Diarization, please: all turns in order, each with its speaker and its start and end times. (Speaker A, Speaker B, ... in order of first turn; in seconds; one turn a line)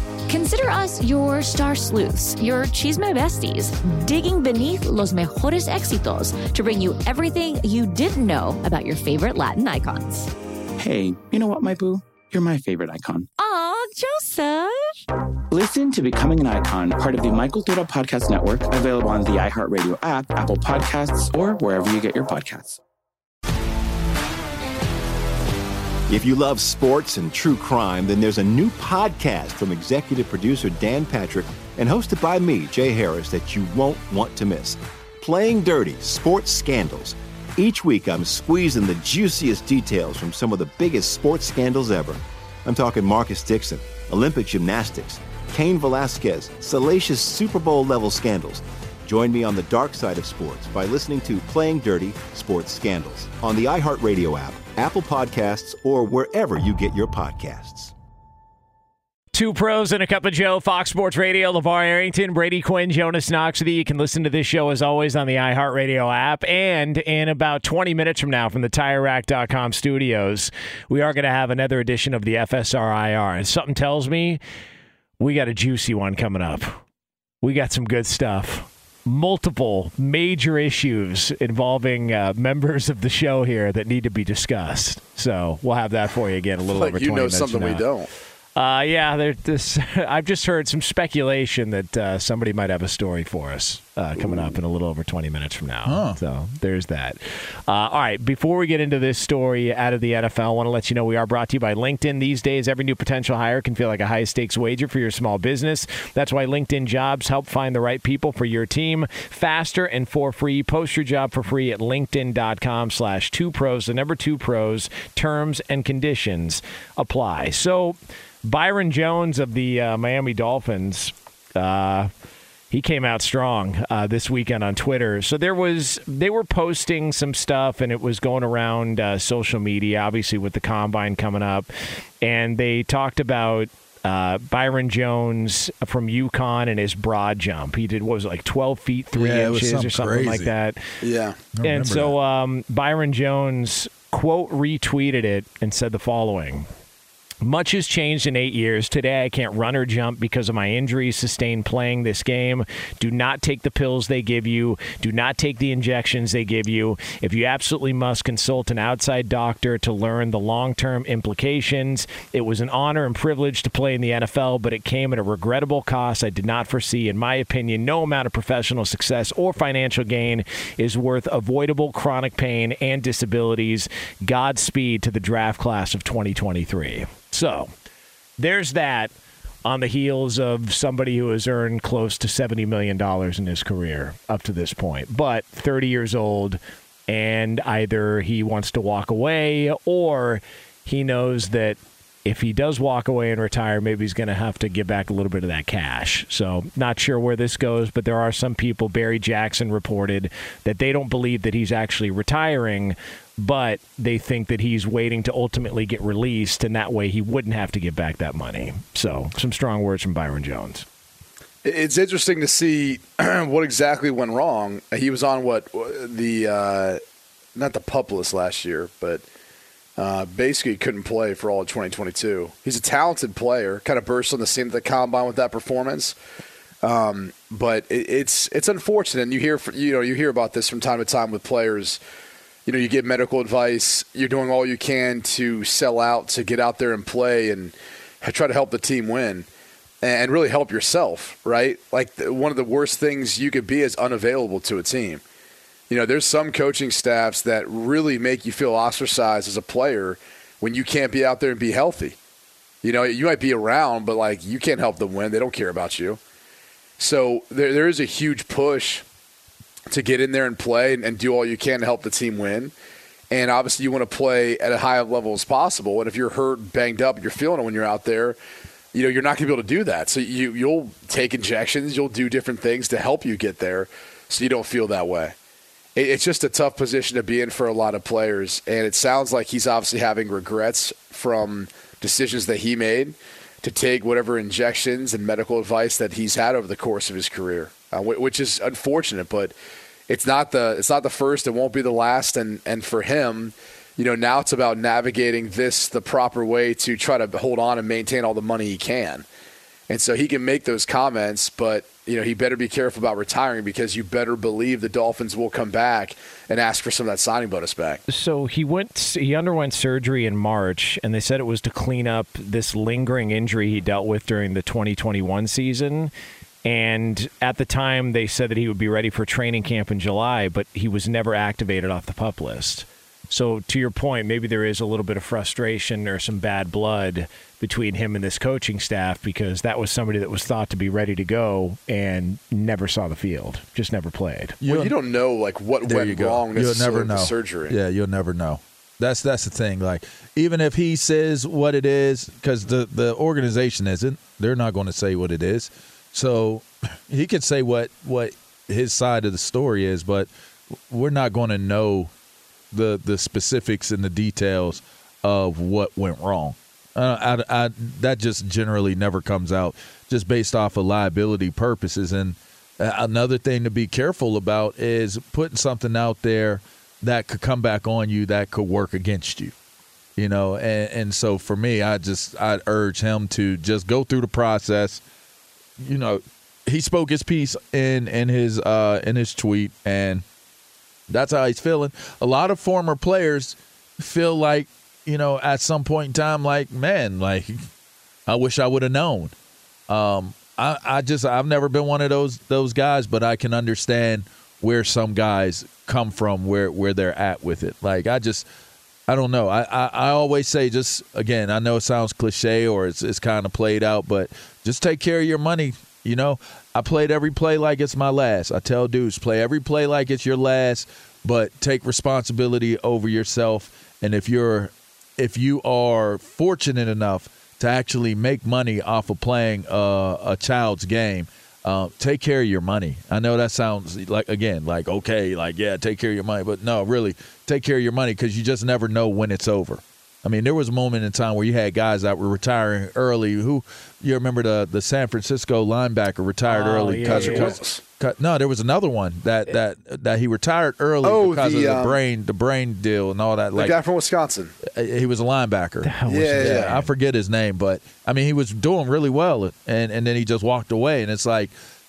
Speaker A: 0.3-10.3
Speaker B: 10.8-13.3
Speaker A: 13.4-14.9
Speaker B: 15.5-22.8
Speaker C: 26.1-57.9
Speaker D: 59.3-74.4
Speaker D: 75.2-76.8
Speaker D: 77.4-87.8
Speaker E: 86.7-88.1
Speaker D: 88.5-122.1
Speaker E: 94.2-94.5
Speaker F: 95.8-96.2
Speaker D: 122.7-131.7
Speaker D: 132.2-140.8
Speaker F: 139.1-140.5
Speaker E: 141.0-141.4
Speaker F: 141.5-142.1
Speaker D: 141.6-146.7
Speaker D: 147.4-177.7
Speaker D: 178.4-179.1
Speaker D: 179.6-210.8
Speaker E: 211.6-217.0
Speaker E: 217.6-219.2
Speaker E: 220.0-226.2
Speaker E: 226.8-232.0
Speaker E: 232.7-239.5
Speaker E: 240.0-245.2
Speaker E: 245.9-252.2
Speaker E: 252.8-256.2
Speaker E: 257.0-259.0
Speaker E: 259.9-262.7
Speaker E: 263.3-268.4
Speaker E: 268.9-275.3
Speaker E: 275.9-289.5
Speaker E: 290.1-299.2
Speaker E: 299.9-308.0
Speaker D: 308.1-316.1
Speaker D: 316.6-334.6
Speaker F: 334.6-334.9
Speaker E: 334.6-337.8
Speaker F: 335.8-350.3
Speaker F: 350.9-352.1
Speaker F: 352.7-369.5
Speaker F: 370.2-375.0
Speaker F: 375.8-380.2
Speaker F: 381.1-387.6
Speaker F: 388.3-389.3
Speaker F: 389.9-398.4
Speaker F: 399.1-443.7
Speaker D: 436.5-437.5
Speaker E: 437.1-437.8
Speaker E: 441.0-442.0
Speaker E: 443.5-444.5
Speaker F: 444.6-451.5
Speaker D: 445.8-446.7
Speaker E: 446.1-446.9